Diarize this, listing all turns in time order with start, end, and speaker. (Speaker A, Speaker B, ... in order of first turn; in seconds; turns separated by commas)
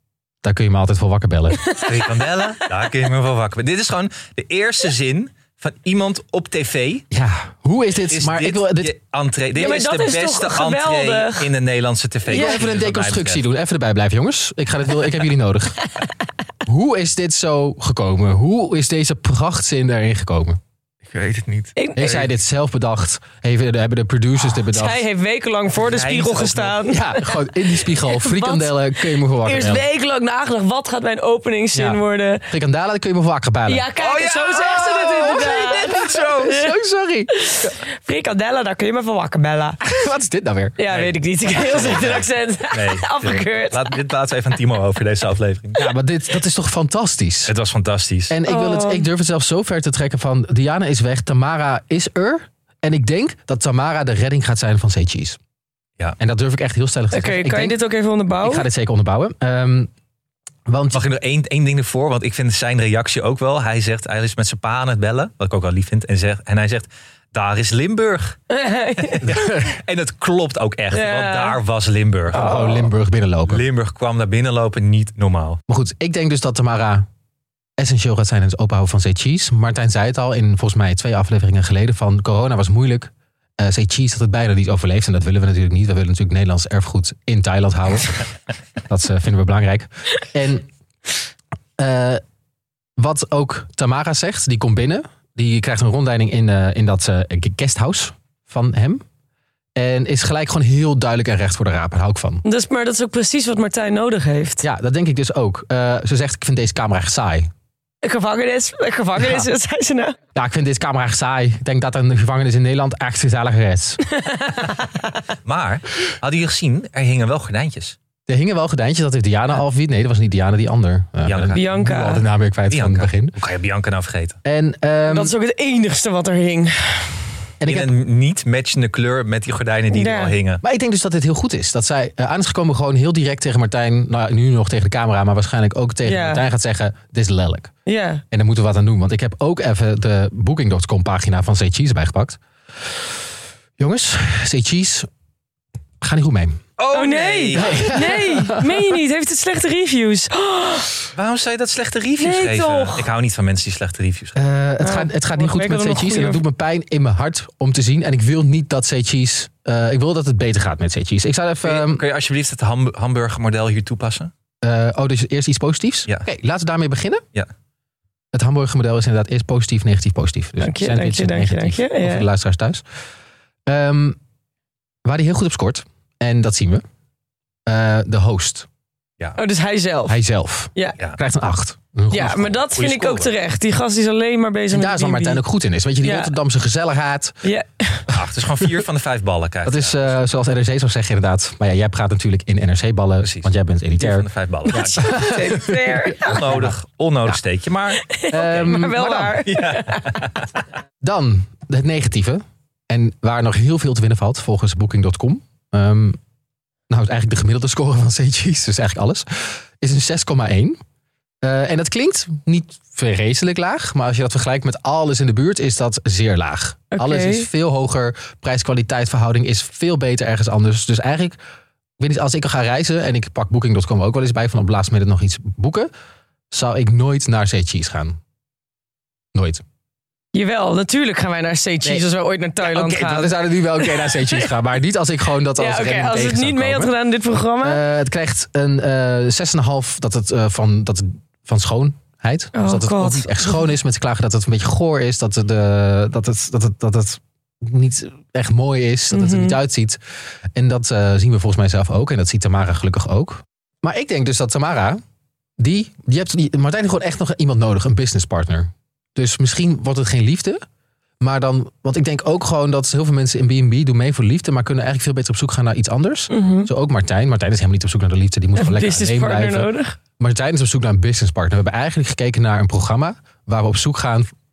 Speaker A: 0.4-1.6, Speaker B: 1.6-2.7, Speaker C: 1.8-7.0, Speaker A: 7.1-8.9, Speaker C: 8.1-13.4, Speaker B: 9.6-11.5, Speaker A: 12.3-15.8, Speaker B: 12.3-12.6, Speaker A: 16.6-20.6, Speaker C: 21.1-22.3, Speaker B: 21.8-22.2, Speaker A: 21.9-25.0, Speaker B: 24.5-32.5, Speaker C: 25.8-26.8, Speaker A: 26.9-29.8, Speaker A: 31.7-32.0, Speaker A: 32.5-33.8, Speaker B: 33.7-36.7, Speaker C: 34.0-36.5, Speaker A: 35.8-37.7, Speaker B: 37.3-39.8, Speaker A: 39.8-40.8, Speaker B: 40.8-43.9, Speaker C: 40.9-45.9, Speaker A: 45.8-47.5, Speaker C: 47.5-48.4, Speaker A: 48.3-55.4, Speaker B: 48.5-49.0, Speaker A: 56.2-57.8, Speaker B: 57.1-58.6, Speaker A: 58.4-59.9, Speaker A: 60.7-61.0, Speaker C: 60.9-68.4, Speaker B: 68.5-69.3, Speaker C: 69.0-72.5, Speaker A: 69.2-69.7, Speaker B: 70.9-71.6, Speaker A: 72.3-73.6, Speaker B: 72.4-72.9, Speaker C: 73.5-75.6, Speaker A: 75.7-77.0, Speaker A: 77.8-88.2, Speaker A: 88.8-90.7, Speaker A: 91.8-92.2, Speaker A: 93.0-99.0, Speaker A: 99.8-102.4, Speaker B: 102.4-104.6, Speaker A: 104.6-107.5, Speaker B: 108.0-110.2, Speaker A: 109.2-109.5, Speaker A: 110.3-114.0, Speaker B: 114.1-114.9, Speaker C: 115.4-118.0, Speaker A: 118.3-123.3, Speaker C: 121.2-121.6, Speaker B: 121.5-122.2, Speaker C: 122.7-124.4, Speaker A: 124.4-125.3, Speaker B: 125.1-127.2, Speaker A: 127.6-127.9, Speaker C: 127.7-130.6, Speaker B: 129.9-130.3, Speaker A: 130.6-137.7, Speaker B: 136.0-136.4, Speaker B: 137.8-138.2, Speaker A: 138.3-142.4, Speaker A: 143.8-145.1, Speaker A: 146.0-146.6, Speaker C: 146.8-147.9, Speaker B: 146.9-150.9, Speaker A: 147.5-148.8, Speaker C: 151.1-154.4, Speaker B: 152.2-153.1, Speaker A: 154.3-162.0, Speaker B: 154.8-156.4, Speaker C: 161.6-164.3, Speaker A: 164.6-167.2, Speaker A: 168.3-172.8, Speaker B: 170.6-172.2, Speaker A: 173.7-174.2, Speaker A: 175.0-176.8, Speaker A: 177.7-178.7, Speaker B: 179.4-180.2, Speaker A: 180.1-182.6, Speaker B: 182.1-185.4, Speaker C: 182.7-183.3, Speaker A: 184.7-187.4, Speaker B: 186.0-186.3, Speaker B: 187.4-188.1, Speaker C: 188.1-190.2, Speaker A: 189.6-196.7, Speaker C: 193.2-195.4, Speaker B: 194.7-196.5, Speaker C: 196.2-198.9, Speaker B: 198.0-200.2, Speaker A: 198.3-199.4, Speaker C: 199.4-200.6, Speaker A: 201.0-206.2, Speaker A: 206.9-210.8, Speaker A: 211.4-221.4, Speaker B: 216.9-217.5, Speaker A: 222.0-225.9, Speaker A: 226.5-228.2, Speaker A: 229.3-229.6, Speaker B: 230.3-234.5, Speaker A: 232.6-236.9, Speaker B: 235.6-237.8, Speaker A: 237.6-250.0, Speaker B: 242.5-243.6, Speaker B: 249.1-249.6, Speaker A: 250.5-255.0, Speaker A: 255.6-260.6, Speaker A: 261.2-274.3, Speaker B: 266.3-266.7, Speaker B: 268.6-269.9